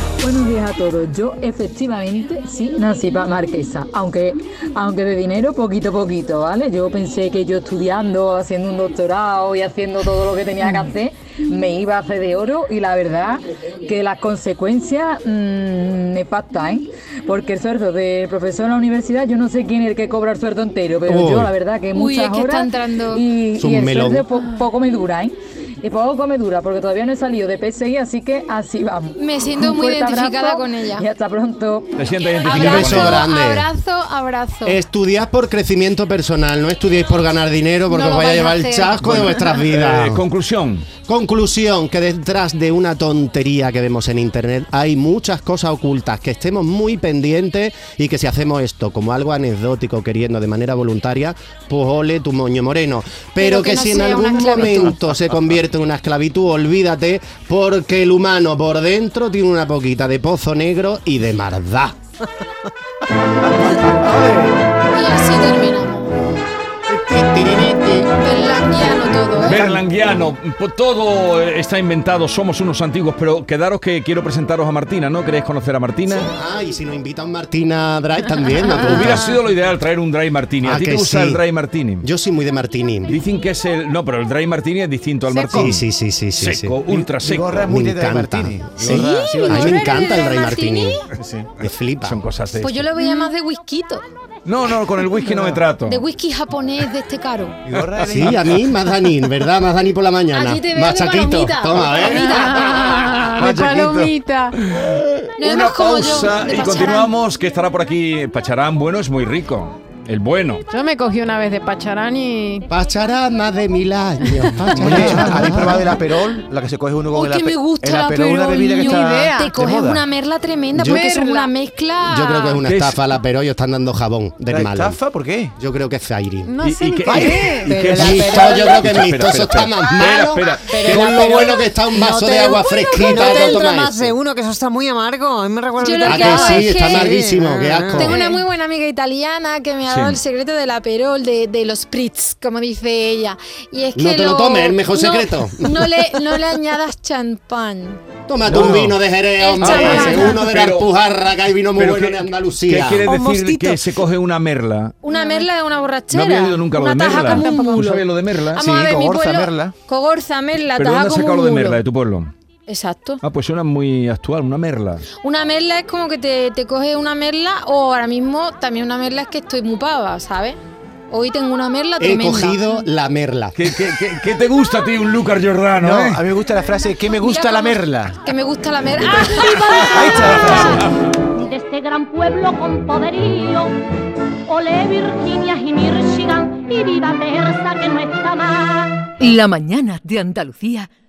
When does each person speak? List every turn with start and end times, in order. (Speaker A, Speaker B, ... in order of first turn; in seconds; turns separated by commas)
Speaker A: 0.2-32.0, Speaker B: 21.1-21.5, Speaker C: 21.9-23.2, Speaker B: 23.6-24.2, Speaker C: 29.2-31.1, Speaker D: 32.0-33.2, Speaker C: 32.4-34.8, Speaker B: 32.5-33.7, Speaker B: 34.6-40.2, Speaker C: 37.9-39.0, Speaker D: 39.0-40.9, Speaker B: 41.1-62.0, Speaker C: 53.4-55.0, Speaker E: 63.9-64.5, Speaker C: 64.9-66.1, Speaker B: 66.9-68.1, Speaker C: 68.2-69.6, Speaker D: 69.4-76.3, Speaker B: 76.2-79.3, Speaker D: 78.7-82.1, Speaker B: 80.6-81.4, Speaker B: 82.0-83.1, Speaker D: 83.1-87.6, Speaker B: 85.5-86.9, Speaker E: 87.1-90.0, Speaker B: 87.6-91.0, Speaker C: 88.8-91.0, Speaker E: 91.2-91.5, Speaker B: 91.6-92.2, Speaker D: 92.0-92.9, Speaker C: 92.6-94.0, Speaker F: 93.0-93.3, Speaker D: 94.5-96.0, Speaker C: 95.8-97.6, Speaker E: 97.7-98.7, Speaker B: 98.0-103.4, Speaker C: 100.3-102.8, Speaker F: 102.0-104.5, Speaker E: 103.3-104.1, Speaker C: 105.4-107.1, Speaker D: 105.4-110.6, Speaker F: 110.7-112.7, Speaker B: 112.7-116.0, Speaker E: 114.7-120.0, Speaker C: 117.1-122.6, Speaker F: 118.6-119.5, Speaker B: 120.8-121.1, Speaker F: 120.8-121.5, Speaker B: 122.0-125.0, Speaker D: 122.6-123.0, Speaker E: 124.5-125.5, Speaker B: 125.6-126.5, Speaker F: 126.5-127.8, Speaker D: 126.6-131.6, Speaker G: 127.1-128.8, Speaker B: 127.9-134.2, Speaker G: 130.7-138.2, Speaker C: 133.2-133.4, Speaker C: 135.8-137.2, Speaker B: 136.0-138.2, Speaker C: 137.9-148.0, Speaker D: 139.9-140.2, Speaker B: 143.9-146.2, Speaker B: 148.3-153.0, Speaker D: 148.4-149.0, Speaker C: 149.4-150.4, Speaker D: 149.6-150.9, Speaker D: 151.8-155.0, Speaker F: 153.1-153.8, Speaker C: 155.0-161.8, Speaker F: 155.1-155.5, Speaker D: 156.1-158.6, Speaker F: 157.2-158.0, Speaker E: 158.6-159.7, Speaker D: 160.8-162.3, Speaker C: 162.7-163.2, Speaker D: 163.2-165.1, Speaker C: 165.2-170.6, Speaker C: 171.1-172.7, Speaker B: 172.0-173.7, Speaker D: 173.6-176.2, Speaker E: 175.8-178.2, Speaker C: 177.2-180.9, Speaker E: 179.2-180.9, Speaker H: 181.4-183.7, Speaker H: 184.5-189.1